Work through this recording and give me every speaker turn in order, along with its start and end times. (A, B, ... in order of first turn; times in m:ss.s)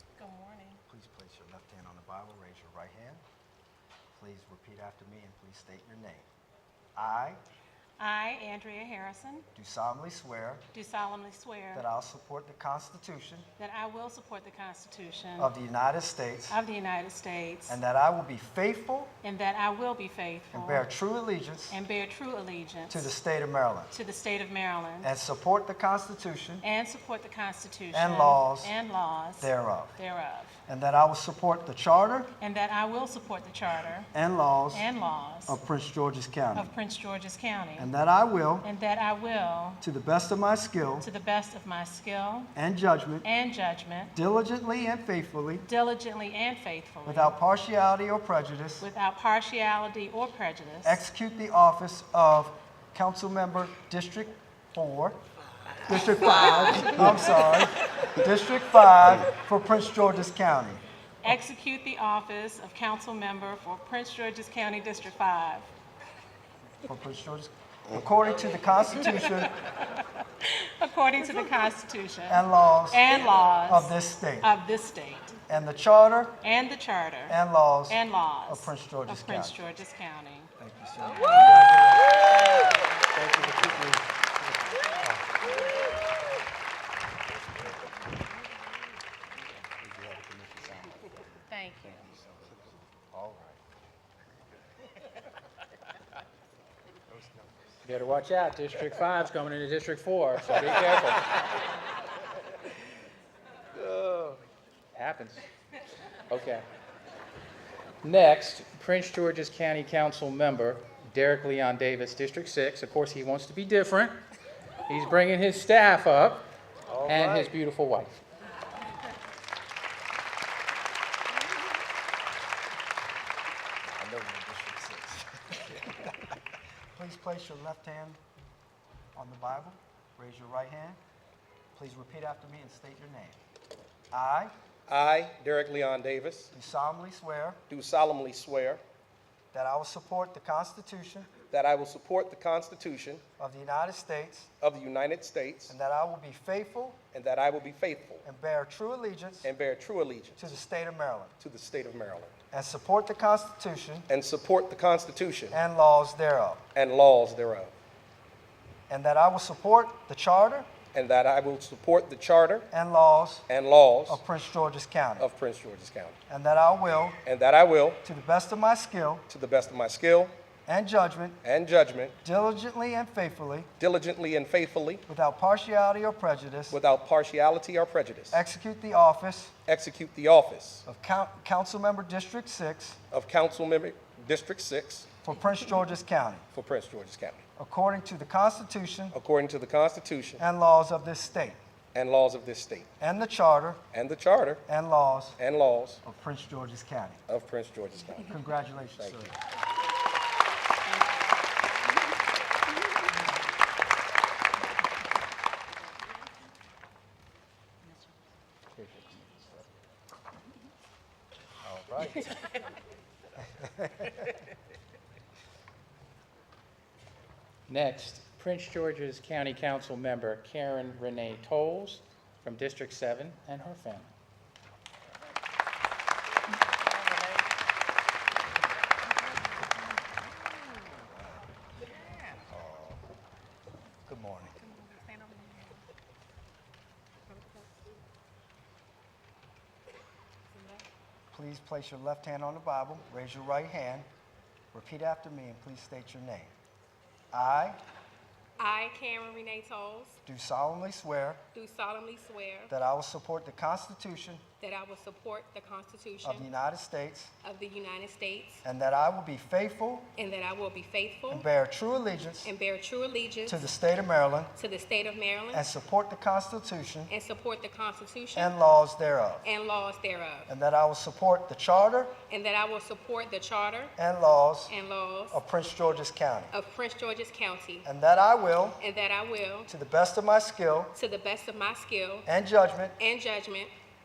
0:00.2-0:00.8 A
0:00.9-0:03.2 B
0:04.1-0:06.3 B
0:07.0-0:07.4 B
0:08.0-0:09.5 A
0:09.6-0:10.6 B
0:10.7-0:11.8 A
0:11.7-0:13.5 B
0:13.6-0:15.5 A
0:15.4-0:16.6 B
0:16.5-0:17.8 A
0:17.7-0:19.1 B
0:19.2-0:20.9 A
0:20.5-0:21.8 B
0:21.7-0:23.1 A
0:22.9-0:24.0 B
0:23.9-0:25.1 A
0:25.0-0:26.6 B
0:26.6-0:30.6 A
0:27.9-0:28.7 B
0:29.4-0:30.0 B
0:30.7-0:32.3 B
0:32.4-0:34.1 A
0:34.1-0:34.9 B
0:34.7-0:35.6 A
0:35.5-0:36.7 B
0:36.5-0:37.9 A
0:37.8-0:38.7 B
0:38.6-0:39.8 A
0:39.8-0:41.1 B
0:41.0-0:42.5 A
0:42.6-0:43.3 B
0:43.2-0:44.2 A
0:44.2-0:45.6 B
0:45.6-0:47.4 A
0:47.0-0:48.9 B
0:48.8-0:51.0 A
0:50.8-0:55.2 B
0:55.9-1:00.8 B
0:55.9-0:57.2 A
1:01.2-1:05.7 A
1:06.8-1:09.5 B
1:08.9-1:15.4 A
1:12.3-1:14.5 B
1:15.5-1:16.4 B
1:16.4-1:20.5 A
1:17.3-1:19.6 B
1:20.6-1:22.7 B
1:21.2-1:21.5 A
1:23.1-1:24.0 C
1:23.5-1:23.9 B
1:25.0-1:25.4 B
1:27.3-1:28.0 B
1:29.7-1:31.2 B
1:31.5-1:32.1 A
1:31.8-1:33.6 B
1:37.1-1:37.4 B
1:37.8-1:41.3 C
1:45.0-1:45.4 C
1:46.3-1:46.7 C
1:48.0-1:54.2 C
1:54.9-1:56.5 C
1:57.0-1:58.2 C
2:04.0-2:06.1 B
2:06.9-2:08.2 B
2:09.2-2:11.0 B
2:11.7-2:13.4 B
2:14.1-2:14.5 B
2:14.9-2:16.5 D
2:16.5-2:17.6 B
2:17.7-2:18.8 D
2:19.5-2:21.3 B
2:21.5-2:23.2 D
2:23.4-2:24.5 B
2:24.6-2:25.8 D
2:25.7-2:27.0 B
2:27.1-2:28.2 D
2:28.2-2:29.5 B
2:29.4-2:30.6 D
2:30.4-2:31.3 B
2:31.4-2:32.4 D
2:32.5-2:34.1 B
2:34.1-2:35.6 D
2:35.5-2:36.6 B
2:36.7-2:37.7 D
2:38.9-2:40.7 B
2:40.9-2:42.7 D
2:42.7-2:43.5 B
2:43.5-2:44.2 D
2:44.1-2:45.3 B
2:45.2-2:46.2 D
2:46.3-2:47.2 B
2:47.2-2:48.0 D
2:48.0-2:49.2 B
2:49.3-2:50.3 D
2:50.7-2:51.4 B
2:51.4-2:52.2 D
2:52.2-2:53.7 B
2:53.8-2:55.0 D
2:55.1-2:56.8 B
2:56.7-2:58.4 D
2:58.3-2:59.5 B
2:59.7-3:00.8 D
3:00.9-3:03.0 B
3:03.1-3:05.2 D
3:05.2-3:06.5 B
3:06.5-3:07.4 D
3:07.6-3:09.2 B
3:09.1-3:10.4 D
3:10.4-3:11.6 B
3:11.9-3:12.9 D
3:13.0-3:13.8 B
3:13.9-3:14.6 D
3:14.7-3:15.4 B
3:15.4-3:16.0 D
3:16.0-3:17.2 B
3:17.3-3:18.4 D
3:18.3-3:19.4 B
3:19.0-3:19.3 D
3:28.8-3:29.6 C
3:31.6-3:32.3 B
3:33.4-3:34.3 B
3:37.7-3:44.1 C
3:51.0-3:51.5 B
3:52.5-3:53.0 B
3:54.1-3:54.6 B
3:54.7-3:55.7 D
4:01.3-4:04.1 B
4:04.7-4:06.5 B
4:07.3-4:07.8 B
4:08.6-4:10.2 E
4:10.3-4:11.4 B
4:11.5-4:12.7 E
4:12.7-4:14.4 B
4:14.6-4:16.5 E
4:16.2-4:17.3 B
4:17.4-4:18.6 E
4:18.6-4:20.1 B
4:20.2-4:21.5 E
4:21.3-4:22.5 B
4:22.4-4:23.6 E
4:23.5-4:24.5 B
4:24.6-4:25.6 E
4:25.5-4:27.1 B
4:27.1-4:28.6 E
4:28.4-4:29.4 B
4:29.4-4:30.5 E
4:30.5-4:32.1 B
4:32.3-4:34.0 E
4:34.0-4:34.7 B
4:34.7-4:35.4 E
4:35.3-4:36.5 B
4:36.5-4:37.9 E
4:37.8-4:38.8 B
4:38.8-4:39.7 E
4:39.7-4:40.9 B
4:40.9-4:42.3 E
4:42.3-4:43.0 B
4:43.0-4:43.7 E